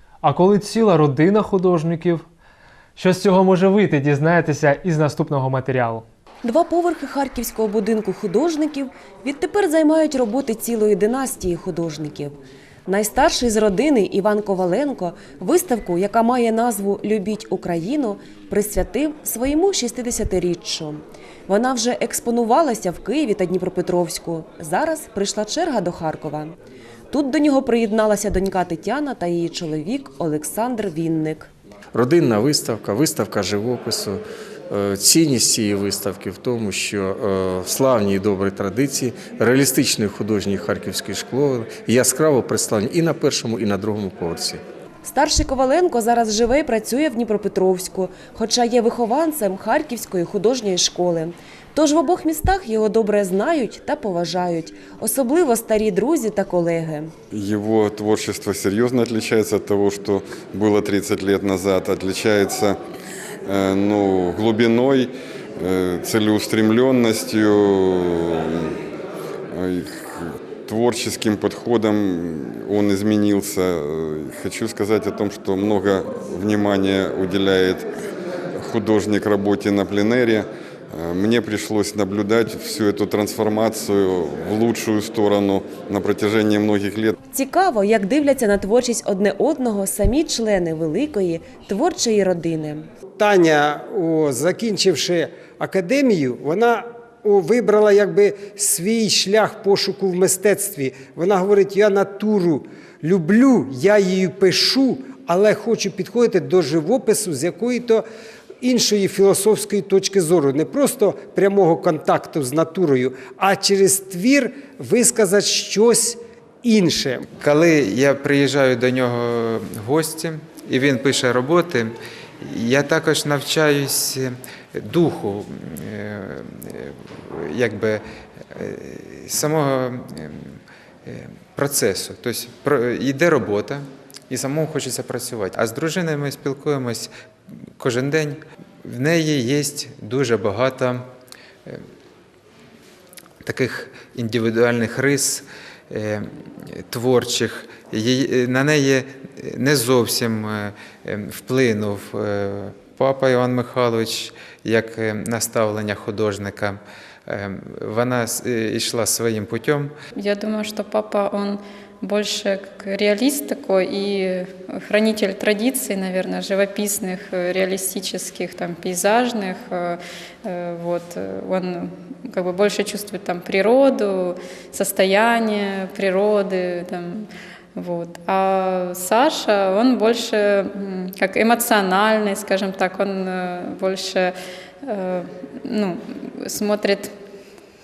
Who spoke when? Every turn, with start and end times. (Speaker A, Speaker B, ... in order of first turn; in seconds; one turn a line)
Speaker A: 0.2-2.3
Speaker A: 3.0-6.0
Speaker B: 6.4-12.4
Speaker B: 12.9-26.6
Speaker B: 27.1-31.5
Speaker C: 31.9-34.2
Speaker C: 34.7-44.6
Speaker B: 45.0-57.1
Speaker D: 57.3-62.8
Speaker D: 63.5-68.8
Speaker D: 69.5-77.9
Speaker D: 78.6-87.2
Speaker B: 87.3-92.9
Speaker E: 93.2-108.0
Speaker E: 108.6-117.3
Speaker F: 117.4-128.0
Speaker F: 128.5-137.1
Speaker F: 137.8-141.0
Speaker F: 143.4-159.9
Speaker G: 160.2-184.3
Speaker G: 184.9-187.1